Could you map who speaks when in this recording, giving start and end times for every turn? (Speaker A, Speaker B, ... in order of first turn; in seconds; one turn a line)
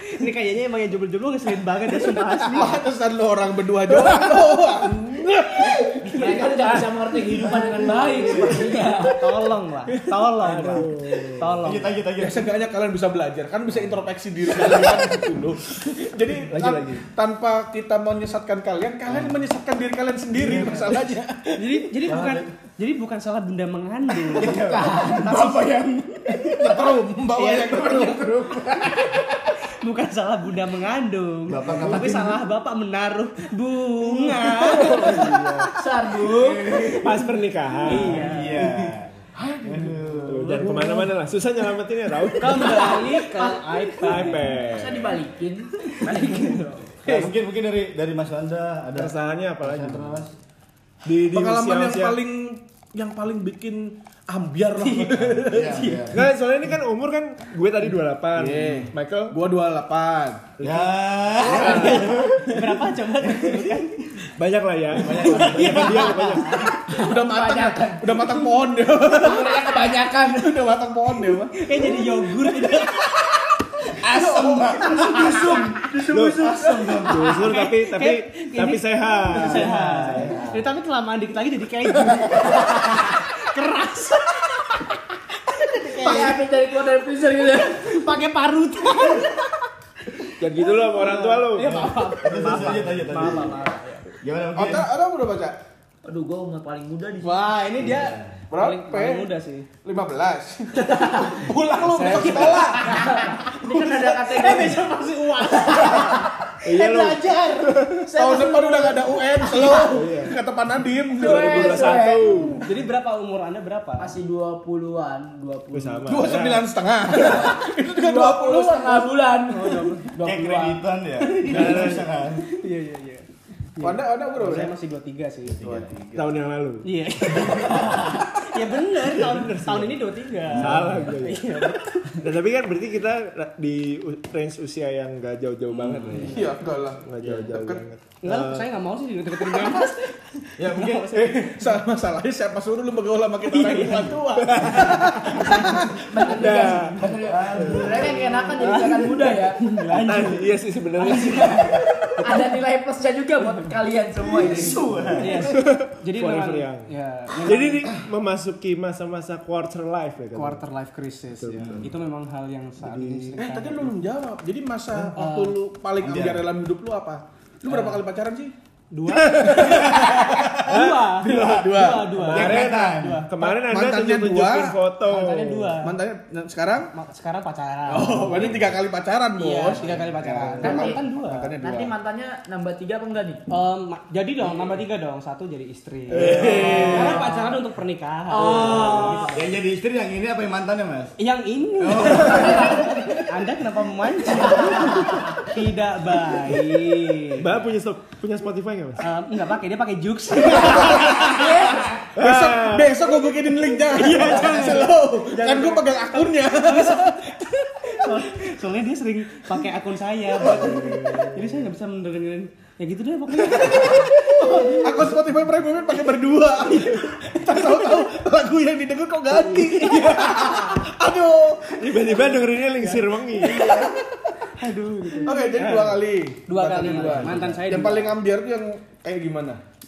Speaker A: 0.1-2.8
Speaker B: 2.4-6.6
Speaker C: 6.0-9.3
Speaker D: 7.5-8.7
Speaker B: 7.6-8.3
Speaker A: 9.2-12.0
Speaker E: 10.1-11.6
Speaker D: 11.6-12.6
Speaker B: 12.2-21.8
Speaker D: 13.7-14.0
Speaker E: 16.5-17.0
Speaker D: 19.1-19.4
Speaker D: 20.4-20.9
Speaker A: 21.6-24.6
Speaker D: 22.1-22.5
Speaker D: 24.3-26.9
Speaker C: 24.4-25.7
Speaker B: 25.2-25.6
Speaker A: 26.3-26.6
Speaker B: 26.4-28.9
Speaker A: 27.4-35.4
Speaker D: 31.5-32.4
Speaker E: 31.7-32.1
Speaker C: 34.8-36.8
Speaker E: 34.8-35.7
Speaker D: 36.2-37.2
Speaker E: 36.9-38.3
Speaker A: 37.8-38.9
Speaker D: 37.9-40.9
Speaker B: 39.4-40.0
Speaker E: 40.2-43.0
Speaker A: 40.5-41.1
Speaker A: 42.4-44.6
Speaker E: 43.9-45.2
Speaker C: 44.6-46.7
Speaker A: 46.0-47.2
Speaker D: 47.0-50.3
Speaker E: 48.9-50.2
Speaker E: 51.0-52.2
Speaker B: 51.3-55.8
Speaker A: 54.8-56.1
Speaker D: 55.4-56.2
Speaker E: 56.1-59.4
Speaker B: 58.4-60.5
Speaker E: 60.6-62.2
Speaker D: 60.6-62.4
Speaker B: 61.4-62.6
Speaker A: 61.6-64.0
Speaker D: 63.3-63.6
Speaker E: 64.4-66.7
Speaker D: 64.9-66.6
Speaker A: 65.1-66.7
Speaker B: 66.8-69.7
Speaker C: 66.8-68.4
Speaker C: 69.0-70.5
Speaker B: 70.2-71.5
Speaker A: 71.6-73.2
Speaker B: 73.9-76.9
Speaker D: 74.0-77.4
Speaker C: 74.9-75.7
Speaker E: 76.1-80.4
Speaker C: 76.9-77.3
Speaker A: 77.3-86.4
Speaker D: 79.3-80.6
Speaker C: 82.3-83.1
Speaker C: 86.0-87.9
Speaker A: 87.7-89.6
Speaker E: 90.4-91.9
Speaker A: 90.6-94.1
Speaker D: 91.6-93.6
Speaker D: 94.2-94.9
Speaker B: 94.5-95.5
Speaker C: 96.0-97.5
Speaker B: 97.2-97.9
Speaker A: 97.3-99.7
Speaker D: 97.8-98.4
Speaker B: 98.5-99.3
Speaker B: 99.8-102.9
Speaker E: 101.9-102.6
Speaker A: 101.9-108.5
Speaker C: 102.7-104.8
Speaker B: 103.8-104.8
Speaker C: 105.5-106.3
Speaker E: 106.6-108.1
Speaker B: 108.1-112.0
Speaker C: 108.2-110.0
Speaker A: 109.5-109.7
Speaker E: 109.8-110.4
Speaker E: 111.2-112.7
Speaker C: 111.2-112.6
Speaker A: 112.6-114.1
Speaker C: 114.0-116.1
Speaker E: 115.7-116.6
Speaker B: 116.1-119.1
Speaker C: 117.1-120.8
Speaker A: 119.5-120.2
Speaker D: 120.1-122.5
Speaker A: 121.2-123.2
Speaker E: 121.5-122.0
Speaker A: 123.8-125.7
Speaker B: 123.8-124.7
Speaker D: 125.5-126.0
Speaker B: 125.6-126.3
Speaker E: 126.1-126.9
Speaker A: 126.8-132.2
Speaker D: 127.4-128.1
Speaker E: 129.2-138.7
Speaker D: 130.5-131.2
Speaker D: 135.7-136.2
Speaker A: 136.1-136.4
Speaker B: 136.2-137.8
Speaker D: 137.2-137.5
Speaker A: 138.2-141.7
Speaker D: 140.6-141.2
Speaker B: 141.1-146.1
Speaker A: 143.4-144.2
Speaker E: 144.4-145.4
Speaker C: 145.3-149.6
Speaker E: 146.3-148.1
Speaker D: 147.2-148.5
Speaker A: 148.6-150.5
Speaker E: 149.9-151.8
Speaker C: 151.0-155.1
Speaker D: 154.2-155.6
Speaker A: 155.2-157.9
Speaker E: 155.4-156.9
Speaker E: 157.4-160.6
Speaker A: 160.3-164.0
Speaker E: 161.3-161.9
Speaker D: 161.6-161.9
Speaker E: 162.8-163.4
Speaker B: 163.4-168.5
Speaker A: 165.2-165.6
Speaker D: 166.0-166.5
Speaker A: 167.7-168.0
Speaker A: 168.9-173.3
Speaker B: 169.2-172.3
Speaker D: 169.8-170.7
Speaker E: 170.7-171.1
Speaker D: 171.3-173.3
Speaker E: 172.3-175.7
Speaker B: 173.4-174.8
Speaker A: 175.0-176.0
Speaker B: 175.8-176.9
Speaker A: 176.9-178.6
Speaker B: 177.9-181.9
Speaker A: 179.4-181.5
Speaker D: 179.9-180.8
Speaker C: 180.6-181.0
Speaker C: 181.6-183.4
Speaker A: 183.5-189.4
Speaker B: 186.1-187.2
Speaker E: 186.1-187.2
Speaker D: 186.2-186.6
Speaker C: 186.7-187.5
Speaker C: 188.3-189.4
Speaker D: 188.3-191.1
Speaker A: 191.2-197.6
Speaker D: 191.8-192.9
Speaker C: 192.2-192.8
Speaker E: 197.4-199.0
Speaker A: 199.0-201.8
Speaker B: 200.6-207.3
Speaker C: 200.9-201.9
Speaker E: 202.2-202.9
Speaker A: 203.9-215.2
Speaker B: 210.3-210.8
Speaker E: 210.4-211.7
Speaker B: 213.4-222.1
Speaker A: 216.7-217.9
Speaker A: 219.5-220.8
Speaker E: 221.8-223.9
Speaker A: 222.8-223.8
Speaker B: 223.4-223.9
Speaker A: 224.6-228.2
Speaker B: 225.1-229.6
Speaker D: 226.7-227.8